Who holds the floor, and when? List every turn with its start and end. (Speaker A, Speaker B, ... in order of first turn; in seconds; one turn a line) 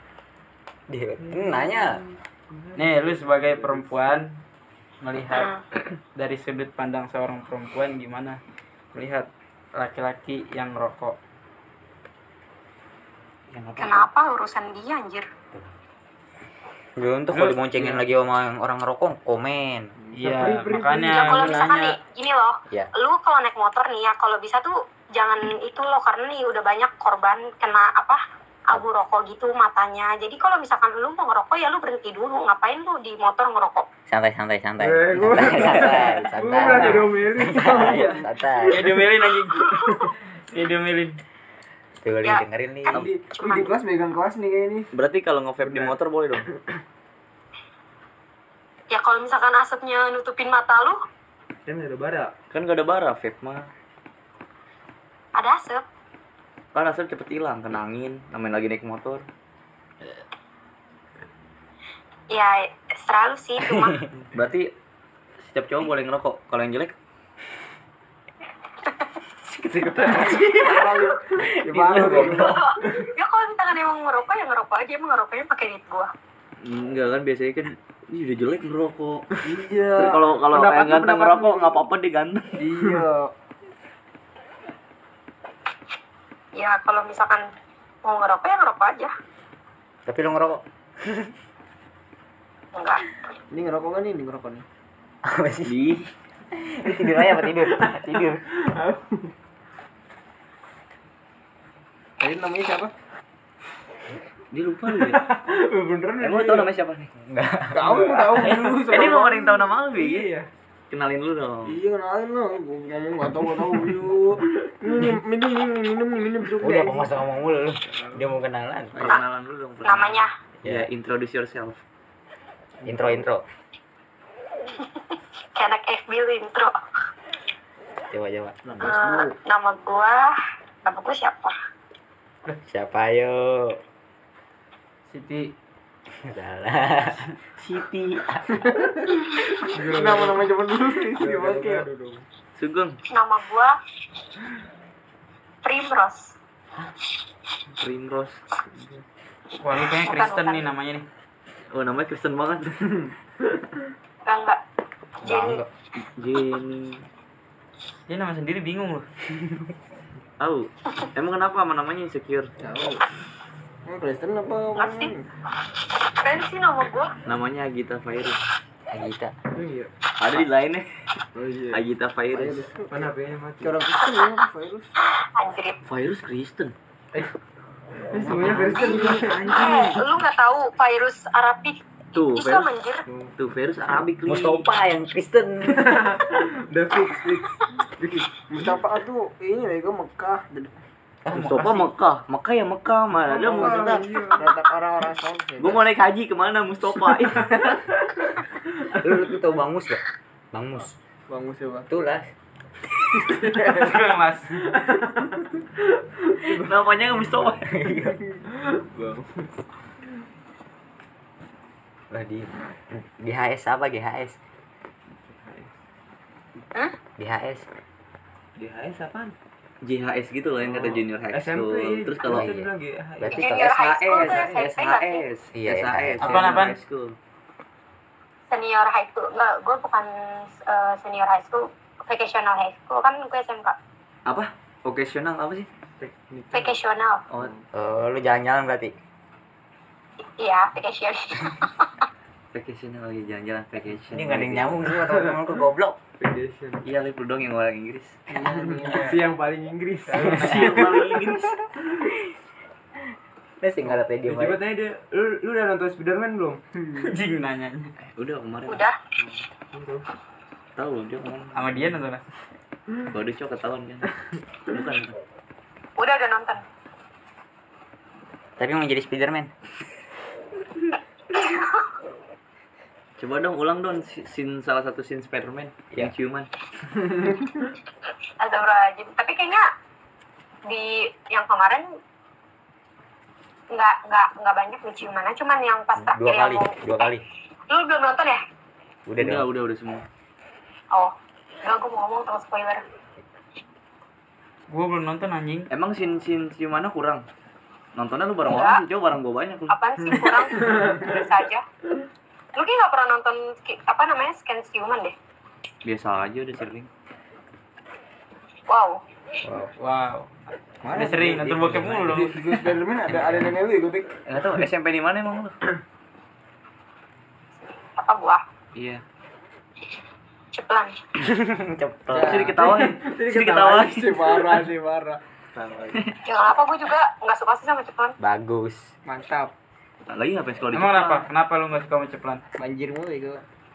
Speaker A: 0.9-2.0
Speaker B: 1.2-4.2
Speaker C: 2.8-4.3
Speaker C: 5.0-5.5
Speaker D: 5.3-5.6
Speaker C: 6.1-8.4
Speaker C: 8.9-11.2
Speaker E: 13.5-14.1
Speaker D: 13.8-15.3
Speaker A: 17.0-19.9
Speaker C: 17.3-18.0
Speaker B: 20.1-21.6
Speaker C: 20.2-22.0
Speaker D: 21.0-33.9
Speaker A: 34.1-39.0
Speaker B: 34.8-39.0
Speaker E: 35.4-35.6
Speaker F: 36.5-37.1
Speaker F: 37.6-38.1
Speaker E: 37.7-38.1
Speaker C: 38.7-41.1
Speaker A: 42.0-43.1
Speaker F: 42.9-44.9
Speaker D: 43.3-43.7
Speaker E: 44.9-46.5
Speaker B: 45.6-45.9
Speaker D: 48.9-51.0
Speaker B: 51.6-52.3
Speaker E: 52.5-53.7
Speaker D: 55.4-55.8
Speaker E: 56.7-59.2
Speaker D: 62.3-64.0
Speaker A: 63.6-64.1
Speaker E: 64.3-64.7
Speaker E: 65.4-66.9
Speaker B: 69.5-73.0
Speaker F: 70.0-72.5
Speaker A: 71.7-72.6
Speaker D: 72.3-76.1
Speaker E: 76.6-79.3
Speaker F: 79.4-81.8
Speaker E: 79.9-82.6
Speaker F: 82.6-83.3
Speaker D: 86.5-87.4
Speaker D: 88.0-89.1
Speaker A: 90.0-91.3
Speaker D: 92.7-93.0
Speaker F: 93.5-94.6
Speaker A: 95.2-95.7
Speaker E: 95.7-96.1
Speaker A: 96.5-98.4
Speaker B: 97.4-99.2
Speaker F: 102.2-102.9
Speaker E: 104.5-105.3
Speaker B: 104.9-106.7
Speaker E: 106.2-107.1
Speaker A: 107.3-108.0
Speaker F: 107.7-109.7
Speaker B: 107.8-109.0
Speaker E: 108.4-110.3
Speaker B: 109.9-110.5
Speaker E: 110.9-111.8
Speaker F: 111.6-117.1
Speaker A: 116.6-119.2
Speaker B: 117.9-118.3
Speaker E: 118.9-121.8
Speaker D: 119.8-120.3
Speaker A: 120.6-120.9
Speaker A: 122.8-123.4
Speaker D: 125.5-126.7
Speaker A: 128.1-128.7
Speaker F: 128.6-129.3
Speaker D: 128.8-130.3
Speaker D: 130.8-131.5
Speaker A: 132.6-133.8
Speaker C: 135.1-135.5
Speaker A: 136.2-137.3
Speaker E: 137.6-138.2
Speaker F: 138.6-139.1
Speaker F: 139.6-141.8
Speaker B: 139.7-140.5
Speaker B: 141.1-142.2
Speaker E: 142.6-143.0
Speaker D: 143.1-143.7
Speaker D: 145.6-146.3
Speaker E: 147.8-148.4
Speaker B: 148.7-149.0
Speaker C: 149.6-151.1
Speaker D: 149.9-150.7
Speaker E: 151.7-153.1
Speaker D: 154.2-154.6
Speaker A: 155.2-155.7
Speaker D: 155.2-155.6
Speaker E: 156.0-157.0
Speaker C: 158.1-159.1
Speaker E: 160.4-162.5
Speaker F: 162.6-163.0
Speaker F: 163.9-165.2
Speaker D: 164.8-165.1
Speaker D: 166.2-167.1
Speaker E: 167.3-168.4
Speaker A: 168.9-169.3
Speaker B: 169.5-169.9
Speaker E: 170.2-170.9
Speaker F: 171.3-171.8
Speaker E: 171.7-172.7
Speaker F: 172.3-173.1
Speaker B: 172.8-173.8
Speaker F: 173.6-174.9
Speaker D: 175.2-175.8
Speaker E: 175.8-176.7
Speaker B: 178.1-179.4
Speaker F: 178.2-179.4
Speaker A: 178.4-179.0
Speaker E: 178.4-180.0
Speaker D: 179.4-183.0
Speaker E: 182.1-182.7
Speaker E: 183.4-184.6
Speaker A: 184.2-186.1
Speaker B: 185.7-188.7
Speaker F: 188.5-190.7
Speaker A: 191.2-191.9
Speaker E: 191.3-194.1
Speaker B: 193.2-194.6
Speaker F: 193.3-195.9
Speaker E: 195.6-197.7
Speaker B: 197.4-198.0
Speaker A: 199.0-200.9
Speaker F: 201.3-201.9
Speaker A: 201.9-202.3
Speaker C: 203.4-204.6
Speaker B: 204.6-206.7
Speaker E: 206.6-207.7
Speaker A: 207.7-208.2
Speaker B: 208.6-209.4
Speaker A: 212.1-214.4
Speaker B: 215.1-215.7
Speaker A: 217.2-217.7
Speaker B: 218.6-219.3
Speaker E: 219.8-222.5
Speaker B: 220.6-223.4
Speaker A: 222.2-223.7
Speaker D: 223.3-225.2
Speaker E: 223.6-227.2
Speaker B: 224.2-224.5
Speaker A: 225.5-226.6
Speaker C: 226.2-226.8
Speaker D: 228.5-233.8
Speaker E: 234.2-235.7
Speaker B: 236.0-236.7
Speaker D: 236.5-237.2
Speaker B: 237.3-237.6
Speaker A: 237.7-238.9
Speaker D: 240.4-241.9
Speaker E: 242.5-244.9
Speaker A: 244.1-245.9
Speaker B: 244.9-245.5
Speaker B: 246.2-246.8
Speaker E: 246.8-248.2
Speaker F: 248.3-249.3
Speaker B: 248.4-251.3
Speaker E: 250.2-251.6
Speaker A: 253.6-254.6
Speaker B: 254.2-256.8
Speaker C: 257.0-257.9
Speaker E: 258.1-258.8
Speaker D: 258.7-259.0
Speaker B: 259.2-260.0
Speaker E: 260.8-261.9
Speaker C: 261.5-262.2
Speaker E: 263.0-264.1
Speaker E: 264.7-265.2
Speaker D: 266.0-266.6
Speaker A: 268.6-269.5
Speaker D: 271.3-271.9
Speaker E: 273.2-276.5
Speaker D: 278.4-279.7
Speaker D: 280.7-281.9
Speaker D: 283.7-286.7
Speaker A: 286.0-287.2
Speaker D: 287.7-288.4
Speaker A: 289.1-289.4
Speaker E: 289.2-290.0
Speaker D: 290.9-292.8
Speaker C: 294.7-295.7
Speaker E: 295.7-297.2
Speaker E: 297.9-300.3
Speaker D: 298.4-298.8
Speaker D: 299.7-301.6
Speaker B: 300.6-301.1
Speaker D: 302.5-305.1
Speaker E: 305.8-306.9
Speaker D: 308.7-309.0
Speaker C: 309.8-310.3
Speaker C: 310.9-312.4
Speaker F: 310.9-314.1
Speaker B: 310.9-311.9
Speaker E: 311.5-313.5
Speaker E: 314.3-315.5
Speaker D: 318.0-318.4
Speaker E: 318.7-319.0
Speaker D: 320.5-320.9
Speaker A: 321.2-322.4
Speaker E: 322.1-324.6
Speaker F: 322.1-325.2
Speaker B: 322.5-322.9
Speaker E: 325.6-326.1
Speaker D: 326.2-328.1
Speaker A: 328.2-328.9
Speaker F: 329.0-329.5
Speaker E: 330.1-331.2
Speaker C: 330.7-332.4
Speaker F: 332.6-333.4